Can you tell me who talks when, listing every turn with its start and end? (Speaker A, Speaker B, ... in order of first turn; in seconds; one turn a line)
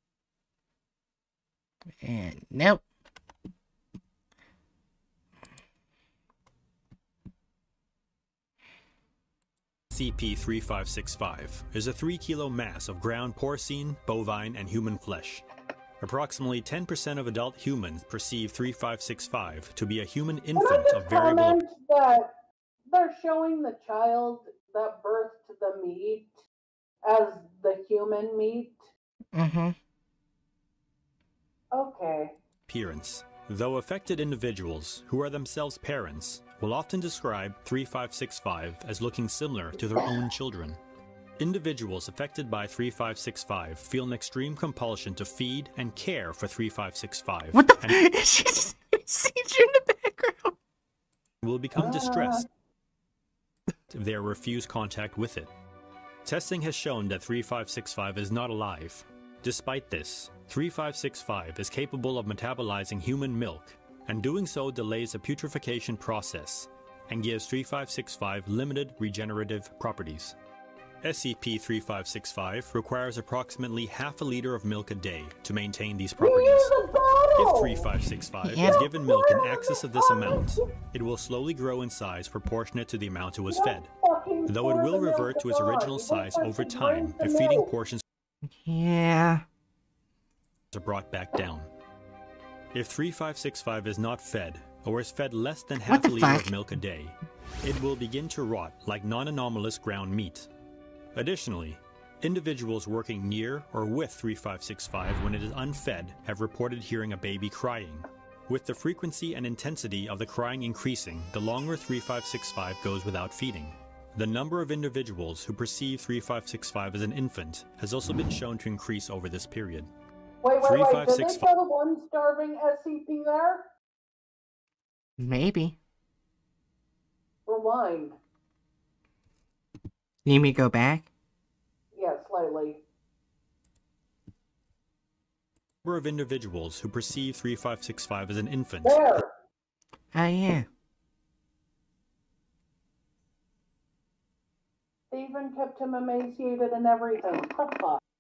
Speaker A: 2.0-2.8
Speaker B: 9.9-15.4
Speaker B: 16.0-21.6
Speaker C: 20.6-26.4
Speaker C: 27.0-28.9
Speaker A: 29.3-29.8
Speaker C: 31.7-32.4
Speaker B: 32.7-40.8
Speaker B: 41.4-48.0
Speaker A: 47.5-50.6
Speaker B: 51.4-52.5
Speaker C: 51.8-52.5
Speaker B: 53.9-55.5
Speaker B: 56.2-70.4
Speaker B: 71.0-76.8
Speaker C: 76.2-77.9
Speaker B: 77.4-83.9
Speaker A: 78.4-78.9
Speaker C: 78.6-80.7
Speaker C: 83.5-87.7
Speaker B: 84.5-88.0
Speaker A: 88.5-89.5
Speaker B: 90.7-91.7
Speaker B: 92.7-100.5
Speaker A: 95.9-96.5
Speaker B: 101.2-119.9
Speaker C: 120.4-123.7
Speaker B: 120.6-121.5
Speaker A: 125.2-125.8
Speaker C: 127.5-128.2
Speaker A: 130.2-131.1
Speaker C: 131.9-132.8
Speaker B: 135.8-139.2
Speaker C: 138.8-139.3
Speaker A: 140.1-140.7
Speaker C: 145.1-148.0